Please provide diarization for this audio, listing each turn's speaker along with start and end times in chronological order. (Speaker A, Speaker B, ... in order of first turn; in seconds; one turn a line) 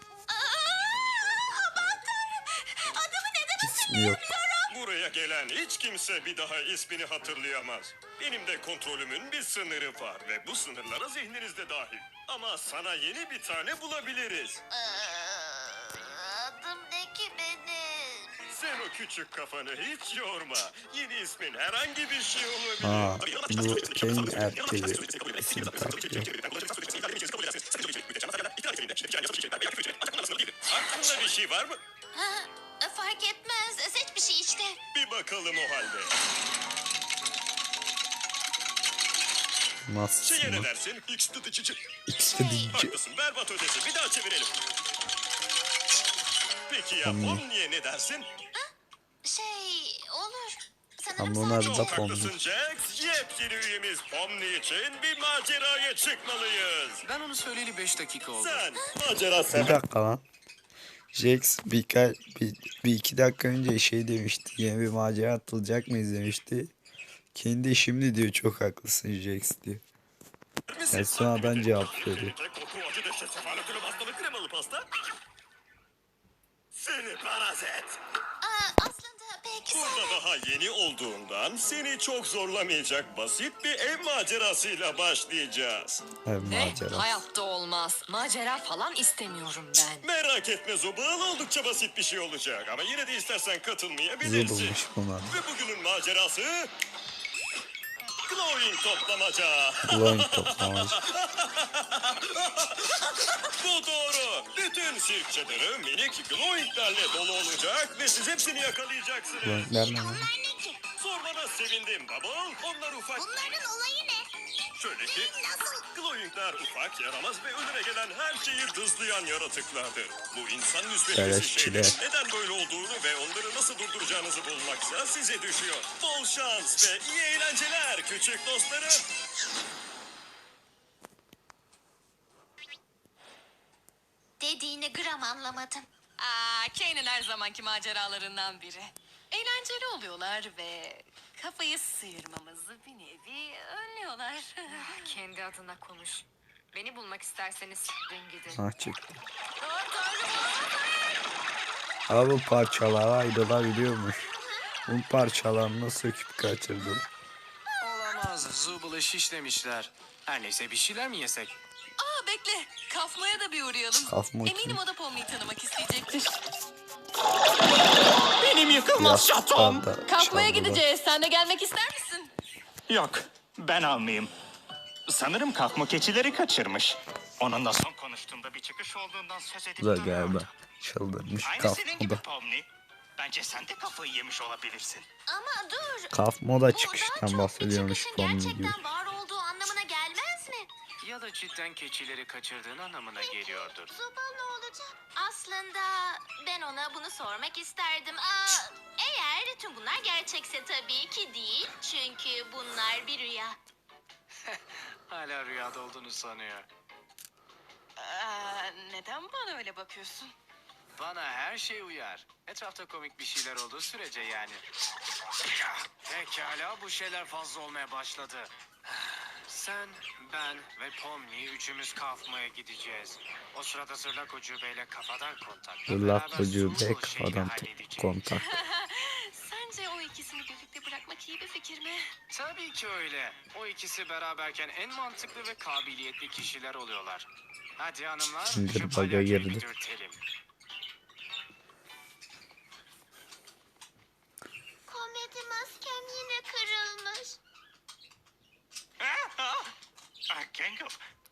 Speaker A: 0.3-4.7
Speaker B: 3.6-4.3
Speaker C: 4.7-14.6
Speaker A: 14.7-18.3
Speaker C: 18.5-31.8
Speaker B: 22.8-26.3
Speaker A: 32.1-34.8
Speaker C: 34.9-36.1
Speaker B: 39.8-40.7
Speaker C: 40.2-41.8
Speaker B: 42.1-43.0
Speaker A: 42.4-42.6
Speaker C: 42.7-44.5
Speaker C: 46.7-48.3
Speaker B: 47.0-47.4
Speaker A: 49.2-51.9
Speaker B: 51.2-52.4
Speaker C: 51.6-57.0
Speaker D: 57.1-58.6
Speaker C: 58.3-59.8
Speaker B: 59.5-60.2
Speaker B: 61.1-66.7
Speaker B: 67.3-69.8
Speaker C: 70.7-74.9
Speaker B: 70.9-72.3
Speaker C: 76.7-78.0
Speaker A: 78.4-80.2
Speaker C: 79.7-86.0
Speaker B: 86.2-87.2
Speaker E: 86.5-90.0
Speaker C: 90.0-96.7
Speaker B: 94.2-95.4
Speaker C: 98.2-109.7
Speaker B: 99.8-101.0
Speaker B: 109.4-110.3
Speaker A: 109.7-110.8
Speaker C: 111.0-113.3
Speaker A: 113.2-114.3
Speaker C: 114.7-115.3
Speaker A: 115.3-115.8
Speaker C: 115.9-129.0
Speaker B: 121.1-122.0
Speaker A: 134.4-135.9
Speaker E: 136.2-145.1
Speaker F: 144.7-148.6
Speaker B: 148.5-149.2
Speaker E: 149.6-150.7
Speaker B: 152.1-154.3
Speaker A: 154.2-154.6
Speaker B: 154.9-157.1
Speaker D: 157.8-161.5
Speaker E: 162.0-166.4
Speaker B: 164.1-164.8
Speaker G: 168.4-169.8
Speaker B: 168.9-170.8
Speaker E: 170.0-172.3
Speaker G: 172.9-174.3
Speaker G: 175.1-180.5
Speaker B: 179.8-182.2
Speaker G: 181.4-185.1
Speaker A: 185.3-186.2
Speaker B: 186.1-188.8
Speaker A: 186.7-190.7
Speaker D: 191.0-193.9
Speaker A: 193.1-203.6
Speaker D: 204.4-206.7
Speaker E: 208.0-210.3
Speaker D: 210.9-214.6
Speaker D: 215.6-228.2
Speaker B: 225.9-228.6
Speaker E: 228.3-232.1
Speaker D: 232.3-240.2
Speaker B: 238.4-239.6
Speaker A: 244.9-247.4
Speaker G: 249.0-249.7
Speaker G: 250.3-251.0